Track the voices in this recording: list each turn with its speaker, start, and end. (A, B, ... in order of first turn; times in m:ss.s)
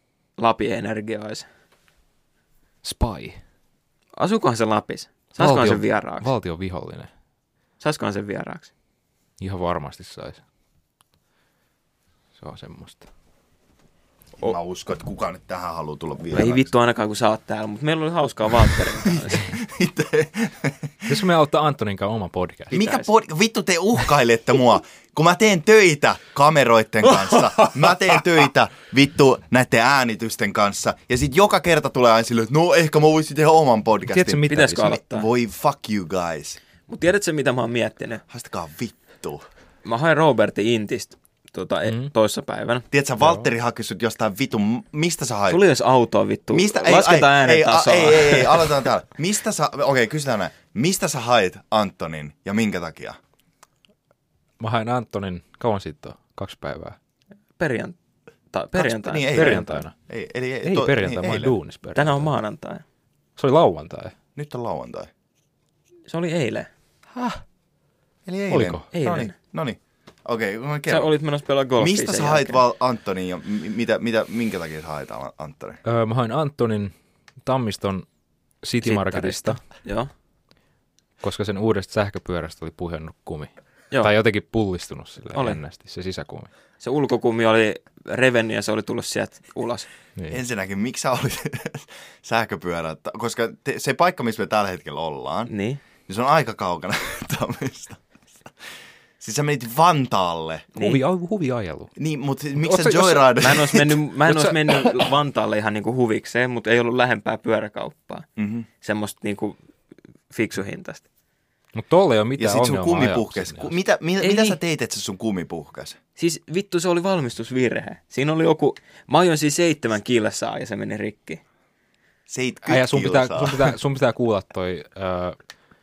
0:00.4-0:01.4 A
0:02.8-0:03.4 B
0:04.2-0:06.3 A
0:05.4-0:07.1 B
0:07.8-0:08.7 A
0:09.4-0:10.4 B
0:12.4-0:13.0 B
0:14.4-0:16.7 C
0:16.3-0:19.5 A
0:19.0-0:21.2 C
0:21.1-0:22.7 B
0:22.7-0:23.1 A
0:22.7-0:36.6 C
0:27.1-0:27.8 B
0:34.0-0:35.0 B
0:34.5-0:35.3 A
0:36.9-0:38.2 A
0:38.3-0:39.4 C
0:39.8-0:42.9 A
0:42.9-0:45.6 C
0:45.5-0:48.8 A
0:46.5-0:53.2 C
0:54.6-0:57.0 B
0:57.6-0:58.0 A
0:58.5-0:59.8 A
0:58.7-1:01.6 C
0:59.3-0:59.9 B
1:00.6-1:02.3 B
1:02.0-1:02.8 A
1:03.4-1:04.1 B
1:04.4-1:05.1 C
1:06.1-1:06.7 A
1:08.3-1:11.1 C
1:08.5-1:08.9 B
1:08.9-1:09.3 A
1:10.9-1:12.6 A
1:11.8-1:15.8 C
1:15.9-1:16.9 B
1:17.4-1:18.0 B
1:18.6-1:19.6 B
1:18.8-1:20.1 A
1:21.2-1:26.5 B
1:25.3-1:25.6 A
1:26.8-1:29.9 A
1:30.3-1:35.5 C
1:35.5-1:35.8 A
1:36.1-1:38.0 C
1:39.2-1:40.7 C
1:40.7-1:41.0 A
1:40.8-1:41.9 B
1:42.0-1:45.0 C
1:42.6-1:43.2 B
1:43.4-1:48.3 A
1:48.4-1:48.7 C
1:48.8-1:49.6 A
1:50.3-1:51.0 A
1:51.7-1:53.7 B
1:52.4-1:56.0 C
1:54.2-1:54.6 A
1:56.2-2:01.4 A
2:02.3-2:03.7 C
2:02.6-2:05.4 B